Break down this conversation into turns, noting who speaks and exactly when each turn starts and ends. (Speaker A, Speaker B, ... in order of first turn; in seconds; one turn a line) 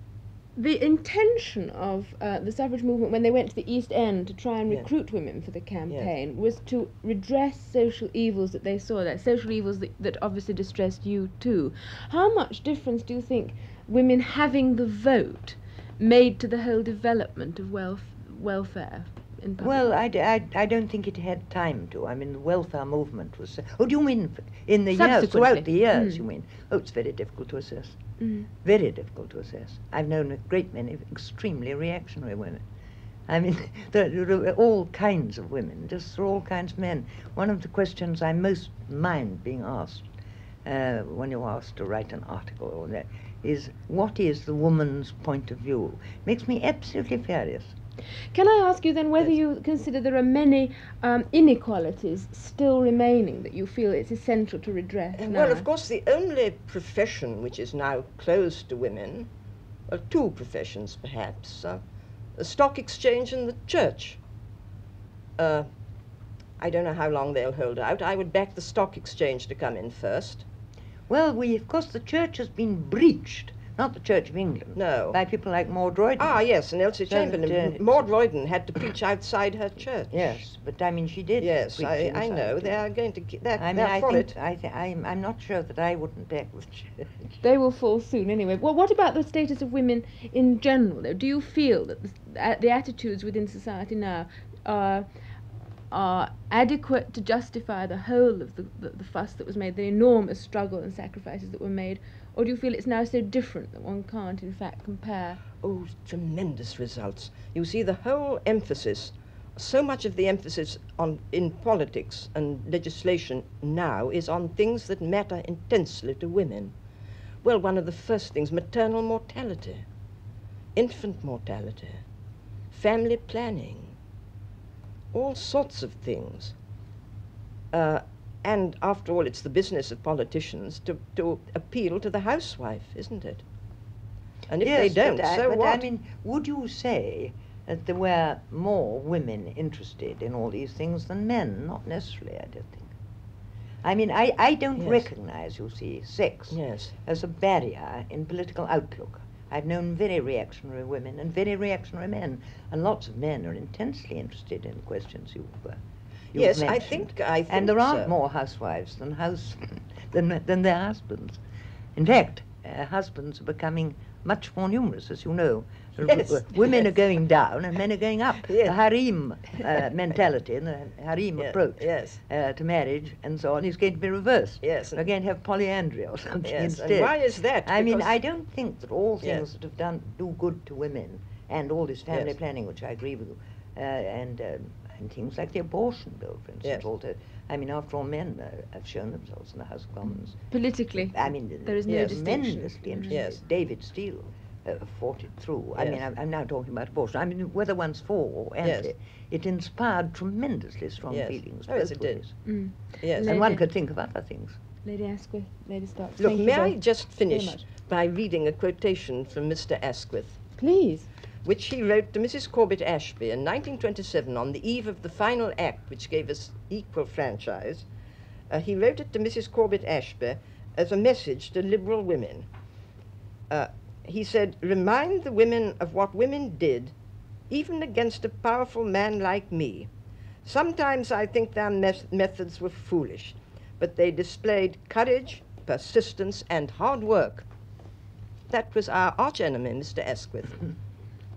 Speaker A: 0.6-19.8
Speaker B: 19.6-28.0
Speaker A: 24.9-26.2
Speaker A: 28.2-28.4
Speaker B: 28.5-32.6
Speaker B: 33.3-40.1
Speaker B: 40.6-47.7
Speaker A: 48.3-55.7
Speaker C: 55.2-59.3
Speaker C: 59.9-61.8
Speaker C: 62.4-64.2
Speaker C: 65.4-65.7
Speaker C: 66.6-70.4
Speaker B: 71.1-76.4
Speaker C: 74.8-75.2
Speaker C: 76.2-80.4
Speaker B: 77.1-78.0
Speaker B: 80.1-82.8
Speaker C: 81.4-84.3
Speaker B: 83.6-87.4
Speaker A: 87.4-95.1
Speaker A: 95.9-105.4
Speaker C: 105.6-116.7
Speaker C: 117.4-119.8
Speaker C: 120.7-122.0
Speaker C: 122.7-124.0
Speaker C: 125.1-126.5
Speaker C: 127.7-133.4
Speaker C: 134.5-135.8
Speaker B: 134.6-142.9
Speaker B: 143.8-155.8
Speaker C: 144.8-145.0
Speaker C: 146.5-146.9
Speaker C: 156.3-158.1
Speaker B: 156.3-161.4
Speaker B: 161.9-190.4
Speaker C: 166.0-166.9
Speaker C: 168.4-168.7
Speaker C: 171.4-172.2
Speaker C: 174.6-175.0
Speaker C: 176.4-178.1
Speaker A: 190.5-193.2
Speaker B: 190.9-202.3
Speaker C: 191.9-192.1
Speaker C: 193.1-193.4
Speaker C: 198.6-198.9
Speaker C: 201.1-202.2
Speaker A: 202.4-203.6
Speaker C: 203.0-203.4
Speaker B: 203.2-204.6
Speaker A: 204.8-207.6
Speaker C: 206.2-210.4
Speaker A: 210.6-211.1
Speaker C: 211.4-217.8
Speaker C: 218.5-222.4
Speaker C: 223.5-226.9
Speaker C: 227.5-229.9
Speaker C: 230.4-237.4
Speaker C: 238.5-240.7